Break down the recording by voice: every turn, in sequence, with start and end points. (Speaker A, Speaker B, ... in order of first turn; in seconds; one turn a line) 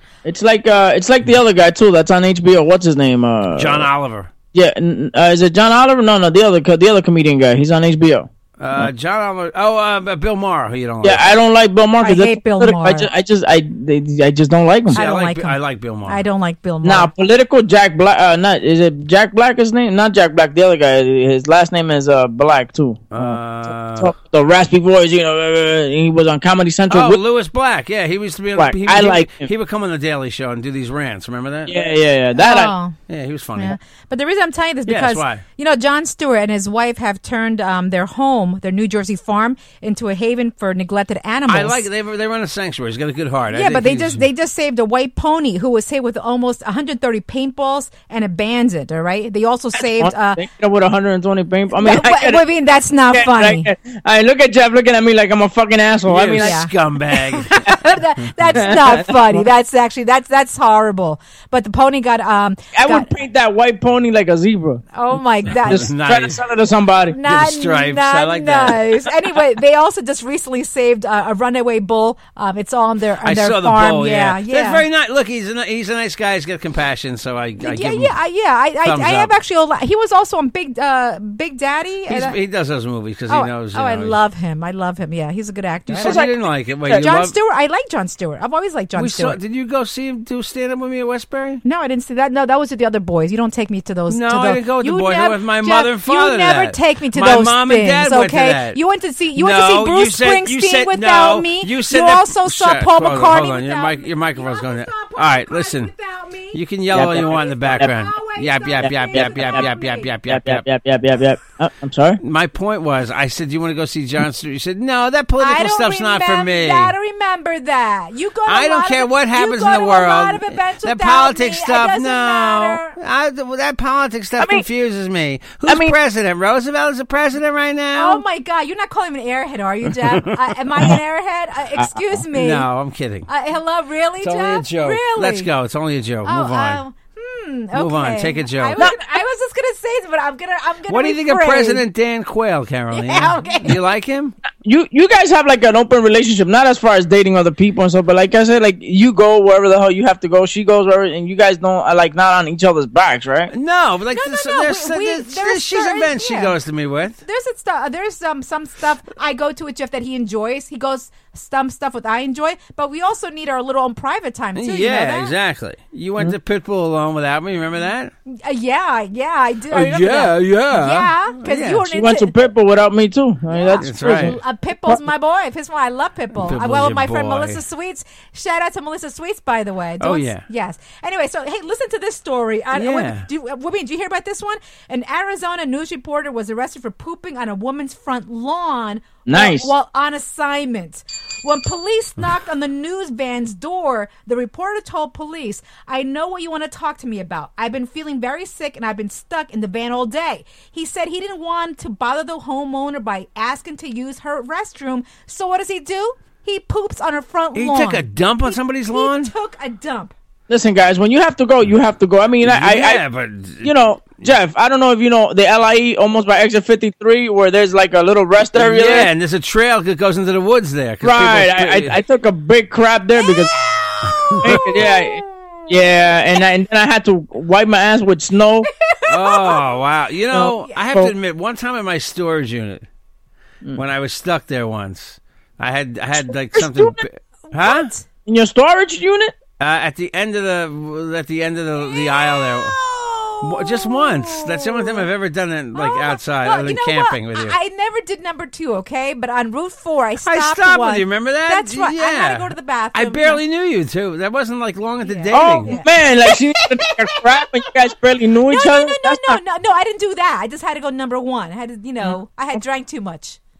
Speaker A: 0.2-3.9
Speaker B: 3.5-4.3
Speaker A: 4.5-8.9
Speaker B: 8.6-11.3
Speaker A: 11.0-15.0
Speaker C: 12.0-13.1
Speaker C: 14.9-17.1
Speaker B: 14.9-16.2
Speaker A: 16.8-27.2
Speaker B: 23.1-24.1
Speaker B: 26.9-31.8
Speaker A: 28.6-29.5
Speaker A: 31.6-32.7
Speaker C: 32.4-33.0
Speaker B: 33.1-33.8
Speaker C: 33.5-41.9
Speaker B: 34.9-35.4
Speaker B: 41.5-44.2
Speaker C: 43.5-50.4
Speaker A: 49.7-52.4
Speaker C: 51.8-53.7
Speaker A: 53.1-56.6
Speaker B: 56.1-57.7
Speaker C: 56.4-63.1
Speaker A: 58.5-59.4
Speaker A: 62.7-64.8
Speaker C: 64.9-65.9
Speaker B: 65.6-66.4
Speaker A: 65.6-67.2
Speaker C: 67.1-74.8
Speaker B: 67.2-69.0
Speaker B: 73.2-78.2
Speaker C: 77.6-82.4
Speaker B: 78.8-79.3
Speaker B: 82.1-84.2
Speaker C: 83.3-86.3
Speaker A: 85.9-86.3
Speaker B: 85.9-87.3
Speaker C: 86.9-89.4
Speaker B: 89.0-91.6
Speaker C: 91.6-110.1
Speaker B: 94.1-98.8
Speaker B: 99.3-105.9
Speaker B: 106.5-110.7
Speaker A: 106.9-107.9
Speaker A: 108.8-109.7
Speaker A: 110.3-112.2
Speaker B: 112.2-116.9
Speaker C: 115.4-123.0
Speaker B: 118.5-128.2
Speaker A: 124.4-124.7
Speaker A: 125.7-126.0
Speaker C: 127.9-132.7
Speaker A: 131.8-132.2
Speaker B: 132.3-133.3
Speaker C: 133.3-135.5
Speaker B: 134.2-136.8
Speaker C: 136.2-141.8
Speaker B: 137.7-138.8
Speaker B: 140.9-144.3
Speaker C: 142.9-143.8
Speaker A: 144.6-153.5
Speaker B: 153.5-157.2
Speaker C: 154.1-156.6
Speaker C: 157.2-165.3
Speaker B: 164.6-168.1
Speaker C: 168.3-172.4
Speaker B: 169.7-171.8
Speaker A: 171.9-175.0
Speaker C: 173.5-210.1
Speaker B: 173.8-174.3
Speaker B: 176.4-177.6
Speaker B: 180.0-180.4
Speaker B: 182.7-183.3
Speaker A: 189.2-189.7
Speaker B: 207.5-209.3
Speaker A: 210.5-213.0
Speaker B: 212.4-213.7
Speaker A: 213.6-219.1
Speaker B: 218.5-222.0
Speaker A: 221.0-223.5
Speaker C: 223.2-225.8
Speaker A: 224.4-228.7
Speaker C: 228.8-229.8
Speaker B: 229.1-232.8
Speaker A: 230.3-231.1
Speaker B: 233.7-237.9
Speaker A: 236.5-237.0
Speaker C: 237.5-238.1
Speaker A: 238.2-239.3
Speaker B: 239.6-242.7
Speaker C: 241.8-245.1
Speaker B: 243.4-247.6
Speaker C: 245.7-253.4
Speaker B: 250.2-255.8
Speaker C: 255.0-257.4
Speaker A: 255.3-259.4
Speaker C: 258.5-263.4